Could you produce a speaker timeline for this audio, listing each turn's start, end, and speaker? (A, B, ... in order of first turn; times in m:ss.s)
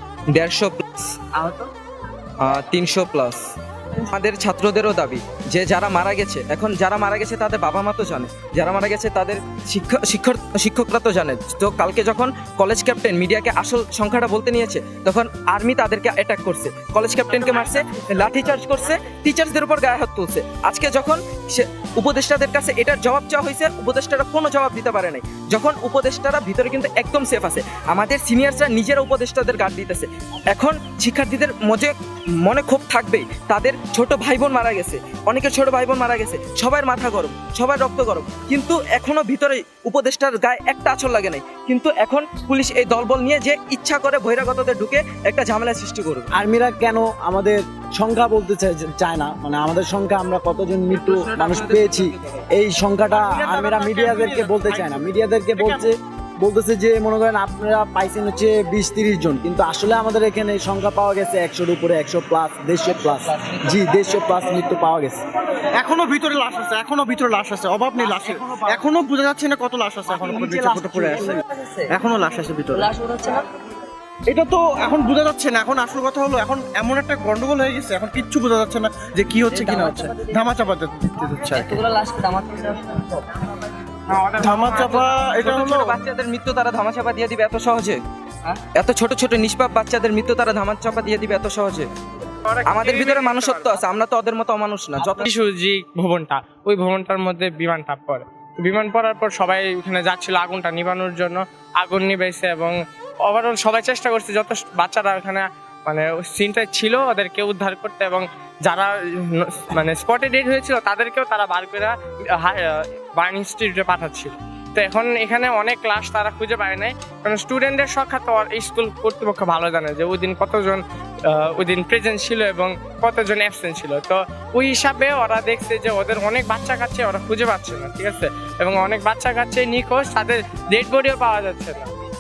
0:00.3-0:01.1 A
0:01.4-0:01.7 B
0:02.4-0:03.4 A
0:04.0-0:46.3 A
0:46.3-1:05.2 C
0:51.1-0:52.0 A
0:53.1-0:55.9 D
1:03.3-1:03.8 B
1:05.8-1:12.9 D
1:08.2-1:08.8 C
1:10.1-1:11.2 C
1:11.1-1:12.0 B
1:12.7-1:13.5 B
1:14.3-1:21.9 D
1:19.5-1:20.5 B
1:21.5-1:23.3 B
1:24.1-1:25.4 E
1:24.4-1:26.0 D
1:25.4-1:28.0 A
1:28.8-1:31.9 A
1:32.5-1:33.8 E
1:32.7-1:35.3 A
1:35.0-2:11.9 E